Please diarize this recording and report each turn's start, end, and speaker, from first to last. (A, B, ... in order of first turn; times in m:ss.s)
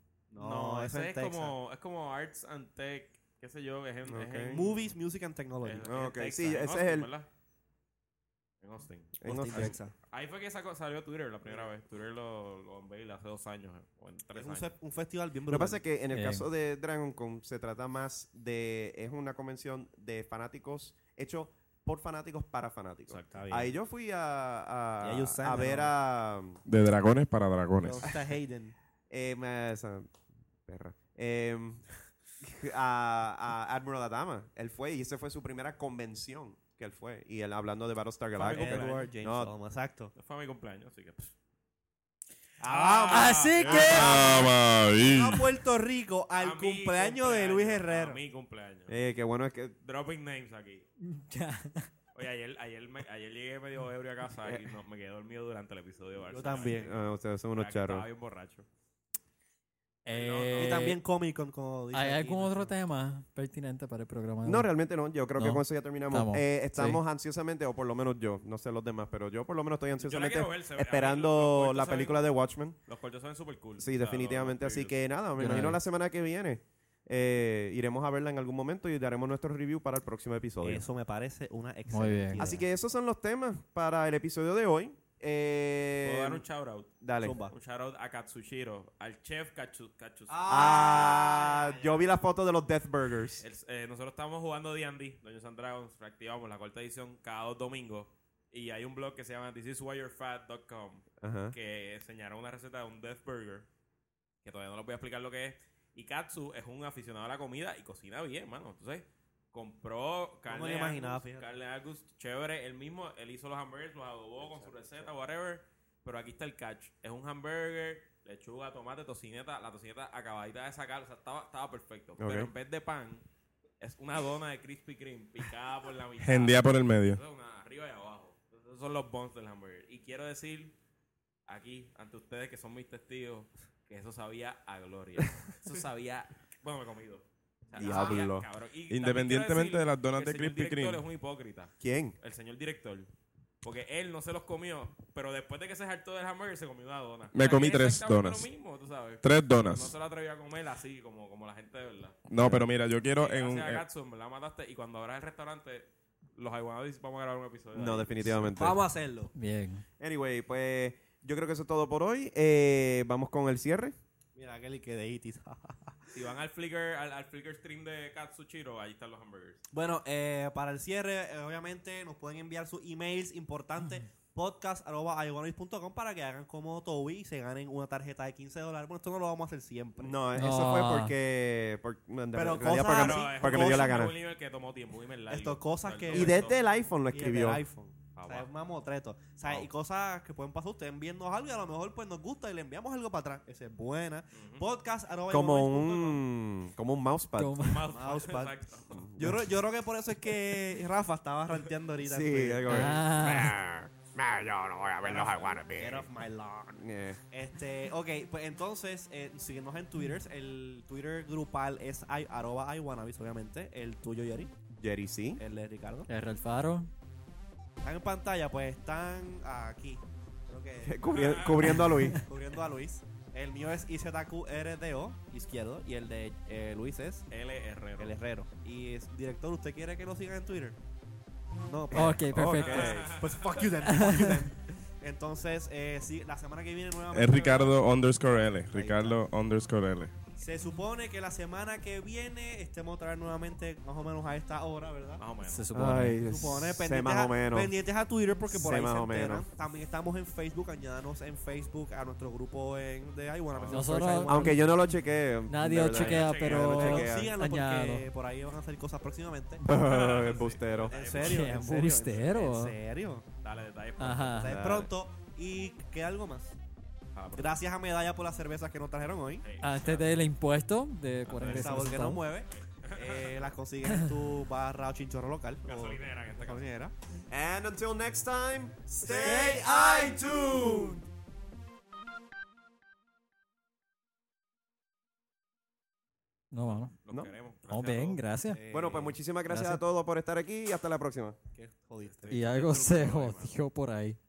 0:00.3-0:01.5 A
0:00.4-0:05.0 B
0:04.0-0:04.6 C
0:04.5-0:05.9 A
0:05.6-0:07.3 B
0:05.8-0:07.1 C
0:08.6-0:14.7 B
0:09.2-0:09.8 C
0:09.2-0:09.9 A
0:14.3-0:15.8 A
0:15.5-0:26.6 C
0:16.1-0:16.4 D
0:23.1-0:23.4 B
0:23.3-0:23.7 A
0:25.0-0:25.9 A
0:26.7-0:28.1 E
0:27.8-0:28.7 A
0:29.1-0:30.1 C
0:30.6-0:31.8 C
0:32.4-0:39.5 C
0:38.3-0:39.1 B
0:38.5-0:40.1 A
0:40.1-0:41.3 B
0:42.6-0:48.2 A
0:42.6-0:44.5 B
0:43.1-0:44.3 D
0:43.8-0:45.5 E
0:46.4-0:49.0 B
0:48.9-0:49.7 C
0:49.8-0:50.9 B
0:51.1-0:51.9 D
0:52.1-0:56.9 B
0:56.3-0:56.9 A
0:56.8-0:58.0 C
0:57.5-0:58.6 B
1:00.0-1:01.0 D
1:00.1-1:00.9 B
1:00.6-1:02.7 A
1:01.9-1:04.7 D
1:04.4-1:12.8 C
1:05.4-1:07.0 D
1:10.0-1:12.3 B
1:12.9-1:15.0 B
1:13.8-1:20.8 C
1:15.4-1:15.8 D
1:20.6-1:22.6 A
1:21.9-1:22.5 D
1:22.4-1:26.4 C
1:26.0-1:31.4 B
1:27.0-1:27.4 C
1:27.2-1:27.5 A
1:30.3-1:31.9 A
1:30.5-1:33.4 C
1:33.4-1:43.7 B
1:41.2-1:41.6 C
1:44.4-2:03.2 B
1:50.5-1:51.4 A
2:02.2-2:02.5 C
2:03.8-2:10.7 B
2:06.2-2:07.2 E
2:11.5-2:23.1 B
2:17.7-2:18.4 C
2:18.9-2:21.0 E
2:21.8-2:22.2 C
2:23.6-2:32.3 B
2:27.3-2:28.5 E
2:29.2-2:29.9 E
2:32.3-2:33.8 E
2:33.2-2:38.6 B
2:37.7-2:38.8 C
2:38.6-2:39.3 A
2:39.3-2:39.8 D
2:40.0-2:43.9 C
2:44.3-2:46.2 A
2:46.1-2:49.6 B
2:49.7-3:00.2 A
3:00.0-3:04.1 C
3:00.3-3:01.1 D
3:02.3-3:04.1 A
3:02.8-3:06.6 B
3:05.3-3:06.5 A
3:06.1-3:07.6 C
3:07.1-3:16.2 A
3:08.2-3:08.5 B
3:14.3-3:14.6 B
3:15.3-3:17.6 C
3:17.4-3:17.9 D
3:17.6-3:19.1 B
3:17.9-3:18.5 A
3:18.9-3:19.4 C
3:19.2-3:23.0 A
3:22.0-3:26.1 C
3:22.6-3:23.6 D
3:25.0-3:34.5 A
3:26.8-3:27.2 C
3:34.7-3:35.4 C
3:35.4-3:36.1 A
3:36.1-3:36.9 D
3:37.8-3:41.2 A
3:40.8-3:42.2 C
3:41.1-3:41.8 B
3:41.8-3:42.1 D
3:42.1-3:47.3 A
3:47.3-3:48.2 B
3:48.0-3:50.8 A
3:51.6-3:57.8 A
3:51.9-3:53.2 C
3:51.9-3:52.9 D
3:52.4-3:53.7 B
3:53.8-3:54.5 D
3:57.1-4:00.1 E
3:58.7-3:59.2 A
4:00.4-4:05.2 A
4:05.2-4:05.6 B
4:05.5-4:06.2 D
4:05.7-4:07.7 C
4:06.2-4:14.6 A
4:08.5-4:09.4 C
4:13.5-4:14.1 B
4:13.7-4:14.6 D
4:14.3-4:17.3 C
4:15.5-4:18.0 D
4:15.8-4:17.1 B
4:16.7-4:19.6 A
4:19.6-4:21.0 C
4:19.7-4:21.5 B
4:20.9-4:23.2 A
4:21.1-4:22.8 D
4:23.4-4:24.5 B
4:24.0-4:24.6 D
4:24.4-4:26.6 A
4:24.4-4:24.9 C
4:27.1-4:27.6 B
4:27.4-4:29.4 A
4:29.4-4:30.2 B
4:29.6-4:32.2 D
4:31.2-4:33.5 B
4:31.4-4:36.9 A
4:35.6-4:36.6 B
4:37.3-4:41.0 C
4:39.0-4:39.7 A
4:39.0-4:40.1 D
4:46.5-4:46.9 D
4:46.6-4:48.2 B
4:47.7-4:48.6 D
4:48.5-4:49.2 A
4:48.7-4:51.4 C
4:49.5-4:49.8 D
4:51.5-4:52.5 A
4:52.1-4:53.6 B
4:52.3-4:54.2 D